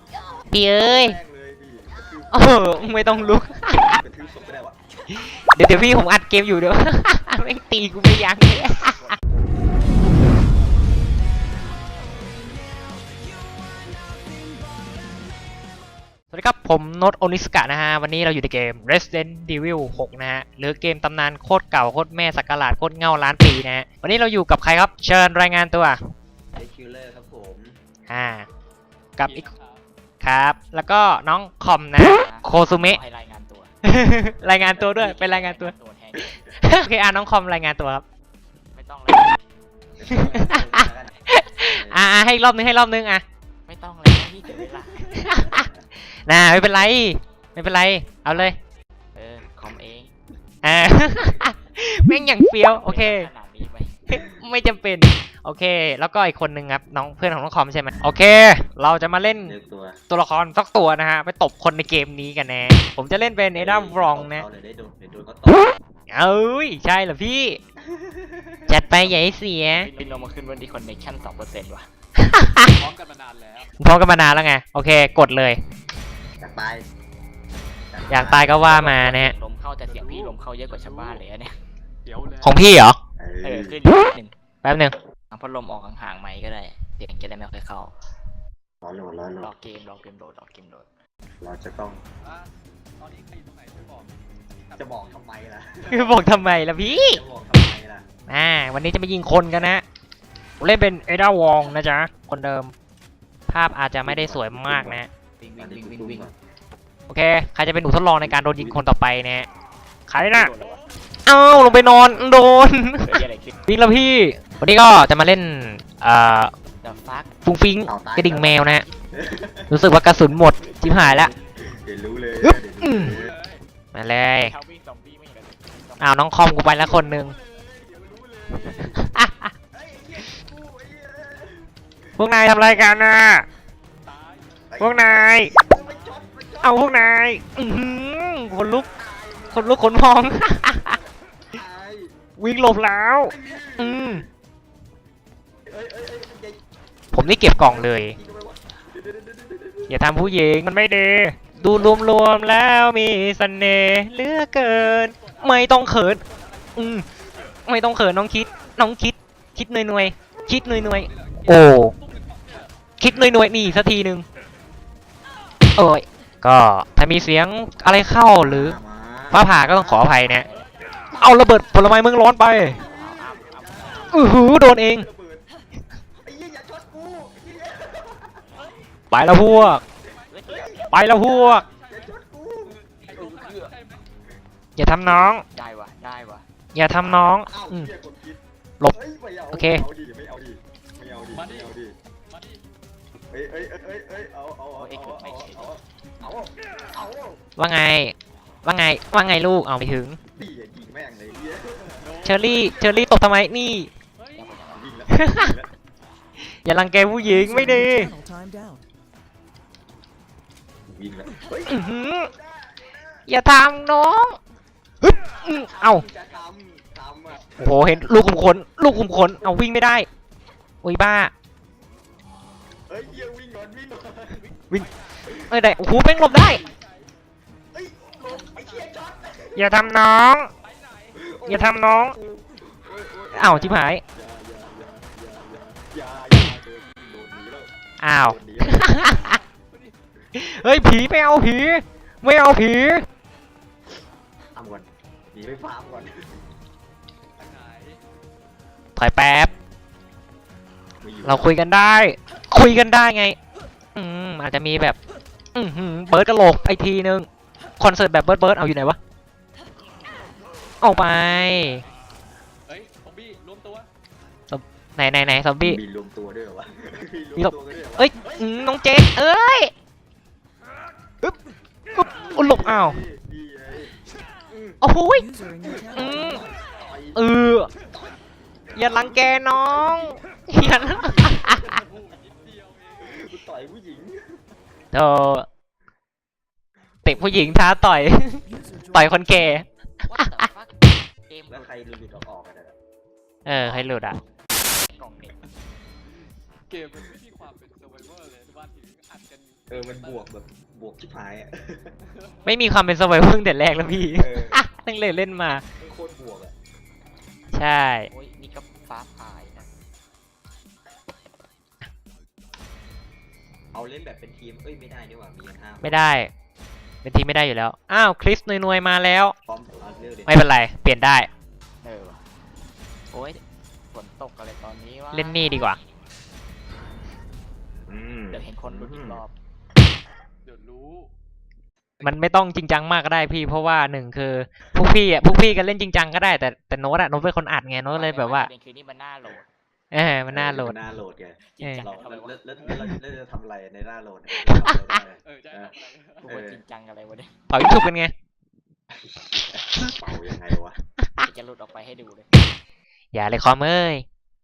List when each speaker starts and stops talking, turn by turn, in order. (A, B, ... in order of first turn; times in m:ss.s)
0:00.5-0:01.2 A
0:00.5-0:04.8 B
0:02.3-0:04.0 A
0:05.1-0:09.2 A
0:16.3-0:26.0 A
0:26.5-0:27.8 B
0:28.1-0:28.5 A
0:29.2-0:29.5 A
0:29.2-0:29.8 C
0:30.2-0:33.0 A
0:32.0-0:33.7 D
0:33.8-0:35.7 A
0:34.7-0:36.4 D
0:36.2-0:36.6 B
0:36.6-0:38.0 A
0:38.7-0:39.4 D
0:40.0-0:42.0 B
0:40.1-0:43.2 A
0:43.7-0:45.2 D
0:44.5-0:45.9 B
0:45.2-0:45.7 A
0:46.3-0:48.6 A
0:49.1-0:50.1 D
0:50.6-0:53.3 A
0:52.6-0:54.1 D
0:54.1-0:59.6 A
0:54.1-0:54.4 B
0:59.4-1:00.0 B
1:00.1-1:04.4 A
1:03.5-1:05.8 B
1:06.1-1:07.6 A
1:07.8-1:09.2 B
1:08.7-1:09.9 A
1:09.6-1:11.9 D
1:12.2-1:12.7 A
1:12.8-1:13.7 C
1:13.8-1:15.6 A
1:16.4-1:16.9 B
1:17.9-1:19.0 B
1:18.1-1:19.3 A
1:18.6-1:21.6 D
1:19.8-1:21.2 C
1:22.0-1:22.6 C
1:22.4-1:23.0 A
1:23.2-1:23.8 B
1:23.4-1:24.3 D
1:24.6-1:24.9 A
1:25.3-1:27.9 D
1:28.8-1:29.5 B
1:29.4-1:30.9 D
1:31.4-1:32.0 B
1:32.2-1:34.1 C
1:34.6-1:35.2 C
1:34.8-1:38.1 B
1:35.9-1:37.2 A
1:38.3-1:39.8 A
1:40.6-1:42.7 A
1:43.5-1:45.1 A
1:44.0-1:45.0 B
1:45.4-1:46.3 D
1:45.6-1:46.3 B
1:47.1-1:49.5 A
1:48.2-1:48.8 B
1:50.1-1:50.5 A
1:50.3-1:50.9 D
1:51.2-1:56.5 A
1:51.5-1:52.2 D
1:53.0-1:53.6 D
1:56.8-1:57.3 D
1:57.4-1:58.8 A
1:57.9-1:59.8 B
1:59.7-2:01.3 A
2:00.4-2:03.3 B
2:02.4-2:03.2 A
2:02.9-2:03.6 C
2:03.9-2:04.5 A
2:04.4-2:06.1 D
2:06.0-2:07.3 A
2:06.5-2:09.1 B
2:08.6-2:09.5 A
2:09.7-2:13.1 B
2:12.2-2:13.4 A
2:14.0-2:14.6 C
2:14.7-2:17.2 B
2:14.8-2:15.5 A
2:15.6-2:16.2 C
2:16.6-2:18.9 A
2:18.6-2:22.2 B
2:19.5-2:21.0 A
2:22.4-2:24.2 A
2:23.2-2:24.3 B
2:25.6-2:30.0 B
2:27.1-2:28.2 A
2:29.9-2:36.2 A
2:31.7-2:32.0 B
2:35.2-2:37.0 C
2:36.8-2:37.0 A
2:37.6-2:41.9 A
2:41.0-2:42.7 C
2:43.0-2:44.2 A
2:45.7-2:48.8 A
2:48.4-2:50.1 B
2:49.3-2:50.4 A
2:50.2-2:50.7 D
2:51.1-2:52.8 A
2:52.6-2:55.5 B
2:52.7-2:54.2 D
2:54.1-2:55.1 A
2:56.2-2:58.5 B
2:59.1-2:59.8 A
2:59.2-2:59.8 B
3:00.3-3:00.8 D
3:00.4-3:02.8 B
3:00.9-3:01.6 A
3:01.2-3:02.1 C
3:02.6-3:04.0 C
3:03.2-3:03.6 D
3:04.8-3:05.4 A
3:05.5-3:06.4 D
3:06.7-3:07.9 A
3:07.0-3:12.0 B
3:09.5-3:09.8 A
3:11.3-3:11.7 C
3:12.3-3:12.6 C
3:13.3-3:17.4 B
3:14.8-3:15.8 D
3:17.6-3:20.2 A
3:20.3-3:23.1 B
3:22.0-3:22.7 C
3:22.2-3:23.9 A
3:24.2-3:24.5 C
3:24.3-3:24.9 D
3:24.7-3:25.7 B
3:25.1-3:25.6 A
3:26.6-3:28.1 A
3:27.2-3:28.8 E
3:30.9-3:33.2 B
3:31.6-3:32.3 A
3:33.3-3:34.4 A
3:35.0-3:36.0 A
3:35.3-3:38.2 B
3:37.6-3:40.1 A
3:38.8-3:39.6 B
3:40.8-3:41.3 A
3:42.9-3:44.4 B
3:44.3-3:47.1 C
3:45.2-3:45.5 B
3:45.5-3:46.6 A
3:47.7-3:49.9 B
3:48.5-3:49.1 C
3:49.6-3:50.5 A
3:50.6-3:51.3 C
3:51.1-3:59.1 B
3:51.5-3:52.2 A
3:53.3-3:54.0 A
3:58.0-3:59.4 A
3:59.0-4:00.0 C
4:00.3-4:03.0 A
4:04.5-4:06.4 B
4:07.4-4:08.0 C
4:09.0-4:09.5 A
4:11.0-4:11.5 B
4:11.2-4:13.4 A
4:13.9-4:15.0 A
4:15.5-4:17.3 A
4:17.8-4:19.0 A
4:20.8-4:21.8 A
4:22.7-4:23.9 C
4:24.5-4:25.8 A
4:25.6-4:28.8 B
4:27.4-4:29.7 A
4:31.9-4:33.0 A
4:32.0-4:34.0 B
4:34.5-4:34.8 B
4:34.8-4:35.2 A
4:35.1-4:36.5 E
4:35.7-4:37.2 B
4:35.9-4:36.4 A
4:37.1-4:37.7 A
4:37.8-4:38.2 B
4:38.7-4:41.8 B
4:38.7-4:41.6 A
4:41.1-4:43.2 C
4:43.0-4:44.4 B
4:44.9-4:45.5 A
4:47.0-4:47.6 B
4:47.0-4:49.6 A
4:48.4-4:49.6 E
4:50.0-4:51.8 D
4:51.5-4:52.7 B
4:53.4-4:54.2 A
4:54.9-4:55.4 D
4:56.7-5:00.3 C
4:59.7-5:01.9 B
5:02.1-5:02.4 C
5:02.4-5:05.6 A
5:04.1-5:04.6 B
5:05.8-5:06.5 B
5:07.5-5:08.1 A
5:08.1-5:09.7 D
5:13.7-5:16.0 B
5:15.8-5:16.3 A
5:17.0-5:19.3 A
5:19.4-5:20.4 B
5:20.3-5:21.3 A
5:21.8-5:22.2 D
5:23.1-5:25.8 D
5:25.1-5:25.8 A
5:27.9-5:29.2 B
5:28.3-5:29.3 D
5:30.4-5:31.1 C
5:32.0-5:38.5 A
5:37.9-5:39.5 D
5:39.9-5:40.8 A
5:40.3-5:46.6 B
5:41.5-5:42.4 D
5:41.6-5:41.9 A
5:44.4-5:45.0 A
5:45.2-5:46.2 C
5:46.2-5:47.3 D
5:47.5-5:48.1 A
5:48.9-5:50.8 B
5:51.2-5:52.3 D
5:53.1-5:54.0 A